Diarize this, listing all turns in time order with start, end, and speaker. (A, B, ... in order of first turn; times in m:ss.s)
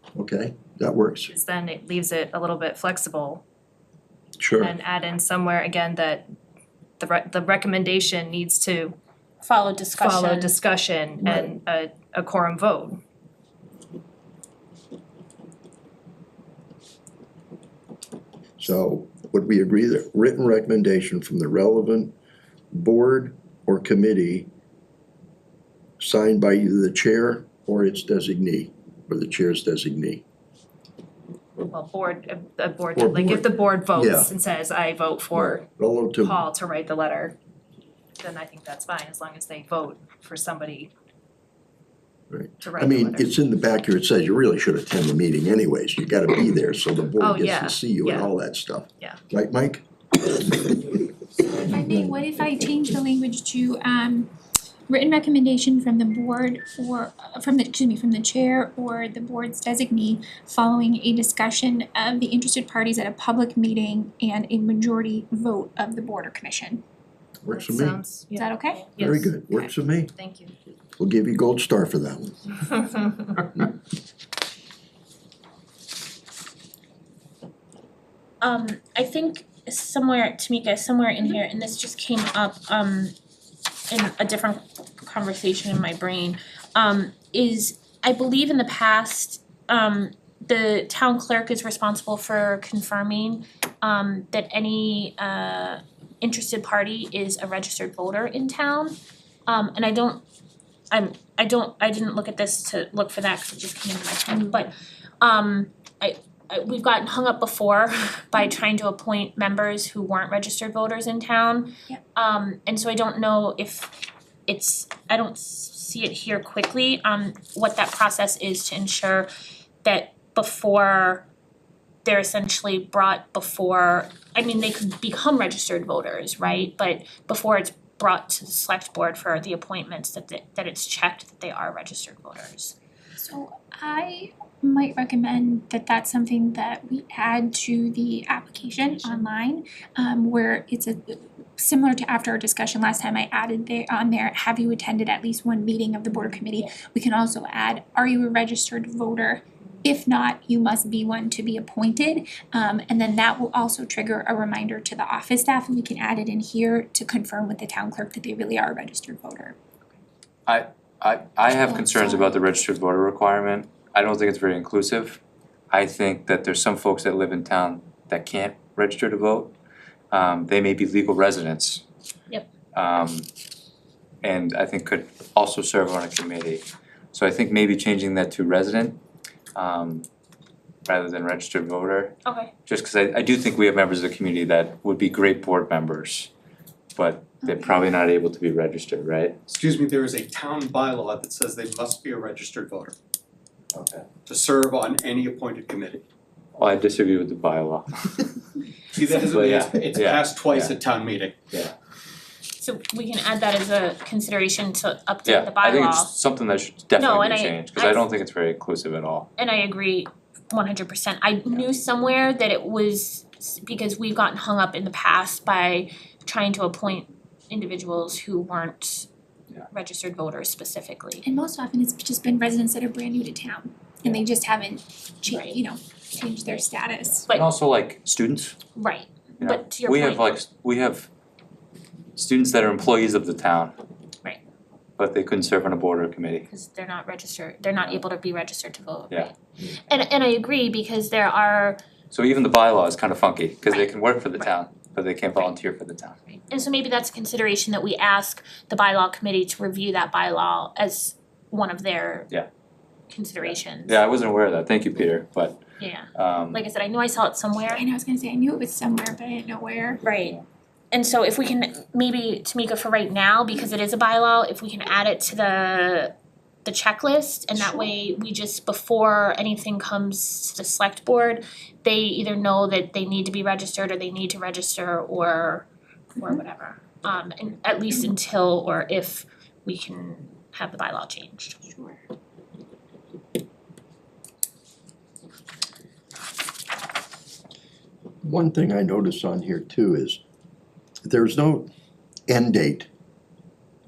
0:00.2-0:01.3 A
0:01.3-0:03.4 B
0:04.4-0:04.8 A
0:04.6-0:06.2 B
0:07.0-0:09.0 B
0:09.4-0:10.6 C
0:10.0-0:13.0 B
0:11.2-0:11.5 A
0:18.6-0:22.1 A
0:22.7-0:24.5 A
0:26.0-0:30.2 A
0:31.7-0:35.7 B
0:33.0-0:34.3 A
0:35.3-0:36.4 A
0:36.2-0:37.4 B
0:38.2-0:40.9 B
0:42.3-0:51.0 A
0:42.6-0:43.3 B
0:47.2-0:48.3 B
0:51.6-0:54.3 D
0:51.7-0:52.2 A
0:54.9-1:06.8 D
1:07.4-1:08.0 A
1:07.5-1:10.5 B
1:08.4-1:08.9 D
1:09.0-1:10.1 A
1:11.0-1:12.6 A
1:18.4-1:23.1 C
1:23.9-1:40.2 C
1:40.9-1:59.3 C
1:59.8-2:01.3 C
2:02.0-2:12.8 C
2:13.2-2:39.6 D
2:40.5-2:49.5 E
2:41.5-2:42.5 D
2:50.1-2:51.8 E
2:52.7-2:53.3 E
2:54.2-2:59.0 E
2:59.6-3:00.0 E
3:00.9-3:02.1 E
3:02.2-3:02.5 C
3:02.7-3:06.3 E
3:07.0-3:09.4 E
3:07.4-3:07.9 D
3:09.5-3:13.0 F
3:13.7-3:14.1 E
3:14.2-3:16.0 F
3:16.6-3:18.4 E
3:18.9-3:21.5 F
3:19.3-3:20.7 E
3:22.6-3:26.2 C
3:25.3-3:29.3 E
3:27.0-3:28.1 C
3:29.4-3:39.1 C
3:39.7-3:41.2 C
3:41.2-3:47.3 D
3:45.3-3:45.6 C
3:47.3-3:48.6 E
3:48.8-3:50.3 C
3:49.4-3:51.1 E
3:52.2-3:53.7 E
3:55.0-3:56.5 E
3:56.5-3:59.3 C
3:59.8-4:01.8 C
4:02.1-4:06.2 E
4:06.5-4:12.3 C
4:13.1-4:14.0 C
4:13.8-4:15.6 E
4:15.8-4:17.8 C
4:16.2-4:16.6 E
4:17.7-4:20.0 D
4:20.0-4:20.4 C
4:20.9-4:26.1 C
4:26.6-4:41.6 C
4:27.6-4:27.9 D
4:41.7-4:42.0 D
4:48.2-4:50.2 A
4:51.0-4:51.7 A
4:52.3-4:52.9 A